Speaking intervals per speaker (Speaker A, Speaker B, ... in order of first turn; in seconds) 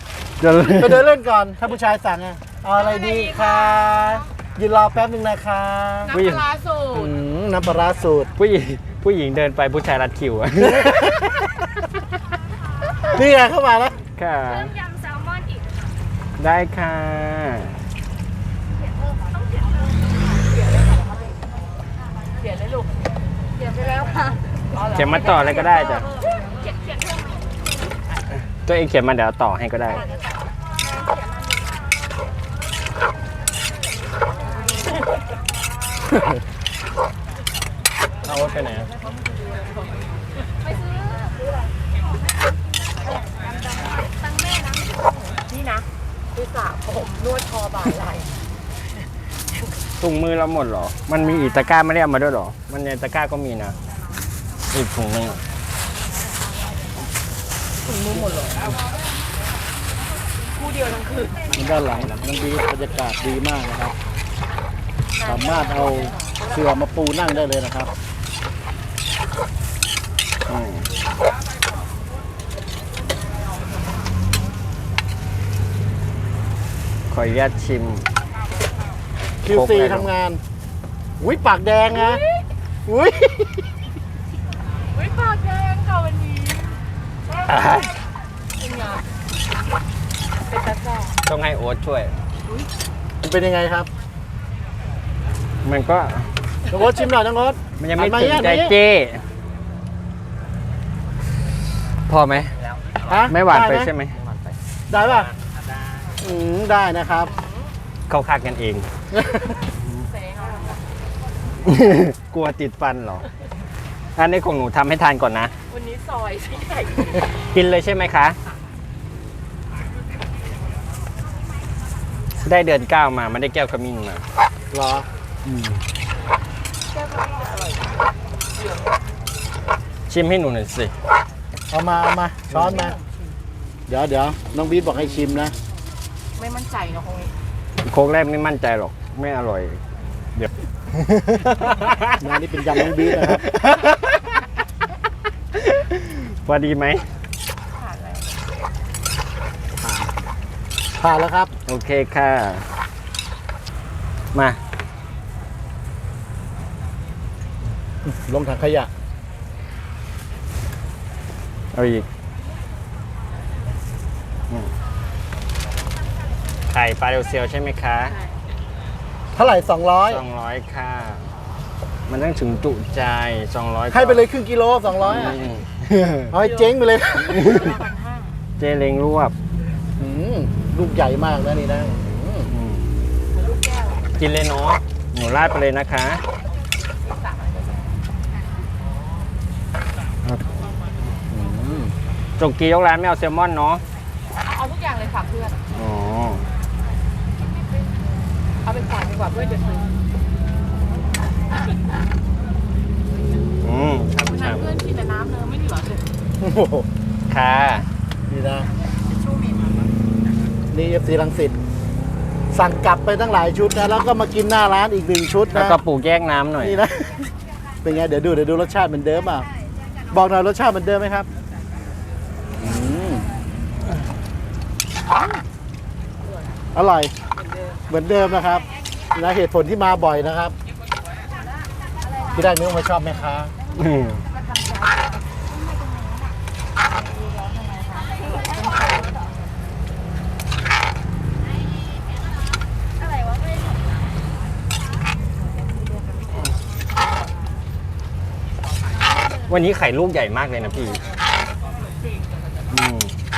Speaker A: 0.4-1.0, 6.1-6.4, 8.4-11.3, 14.2-14.8, 16.4-17.8, 24.8-26.1, 28.6-30.1, 38.2-38.9, 50.0-53.8, 54.7-55.4, 70.5-70.9, 77.1-78.0, 79.5-80.1, 87.4-87.9, 91.2-92.1, 95.6-96.3, 97.8-99.2, 102.1-102.6, 103.3-104.2, 108.1-108.9, 111.6-113.2, 114.2-115.5, 117.5-118.4, 122.4-124.2, 125.4-125.8, 130.1-130.9, 137.8-139.8, 140.3-142.1, 142.8-144.3, 145.5-147.1, 151.7-152.7, 161.7-162.1, 166.7-168.2, 170.1-171.3, 172.1-174.3, 175.0-176.3, 177.3-177.7, 178.6-179.3, 182.5-182.9, 184.2-186.2, 192.4-193.8, 195.7-196.4, 203.6-204.7, 207.3-207.9, 215.5-216.8, 233.7-234.2, 249.4-251.0, 252.7-253.1
Speaker B: 0.7-6.1, 6.9-8.3, 10.7-11.3, 13.0-14.0, 61.5-63.9, 65.2-67.9, 79.4-80.4, 81.2-82.2, 82.8-83.7, 93.2-93.9, 96.7-98.8, 103.1-103.9, 104.9-105.3, 106.2-107.3, 109.1-109.4, 124.7-125.1, 131.7-133.0, 133.9-135.5, 142.2-143.4, 149.8-150.1, 151.0-151.5, 158.0-158.9, 169.3-170.2, 173.9-175.4, 176.3-177.6, 180.0-182.5, 191.3-191.9, 206.4-206.9, 208.3-208.7, 210.7-211.6, 212.5-215.8, 216.6-217.3, 217.8-219.5, 220.1-221.3, 222.6-223.3, 226.7-227.1, 227.9-230.5, 232.3-233.5
Speaker C: 2.8-4.2, 6.0-7.1, 20.3-21.4, 22.4-23.0, 24.7-25.6, 39.0-40.2, 45.4-48.4, 57.9-58.7, 60.5-61.5, 65.1-66.5, 81.9-82.4, 84.9-86.8, 88.5-89.1, 90.4-91.2, 92.4-92.7, 107.2-107.7, 110.0-110.8, 115.7-117.3, 126.9-128.0, 128.6-129.0, 136.3-137.3, 147.7-148.4, 168.1-168.4, 176.4-178.4, 183.3-184.2, 187.0-187.9, 194.4-195.6, 198.6-199.9, 204.2-206.0, 225.1-225.4, 226.2-226.5, 227.3-227.8, 251.4-252.7
Speaker D: 23.6-24.4, 25.9-26.3, 29.9-30.2, 237.3-238.0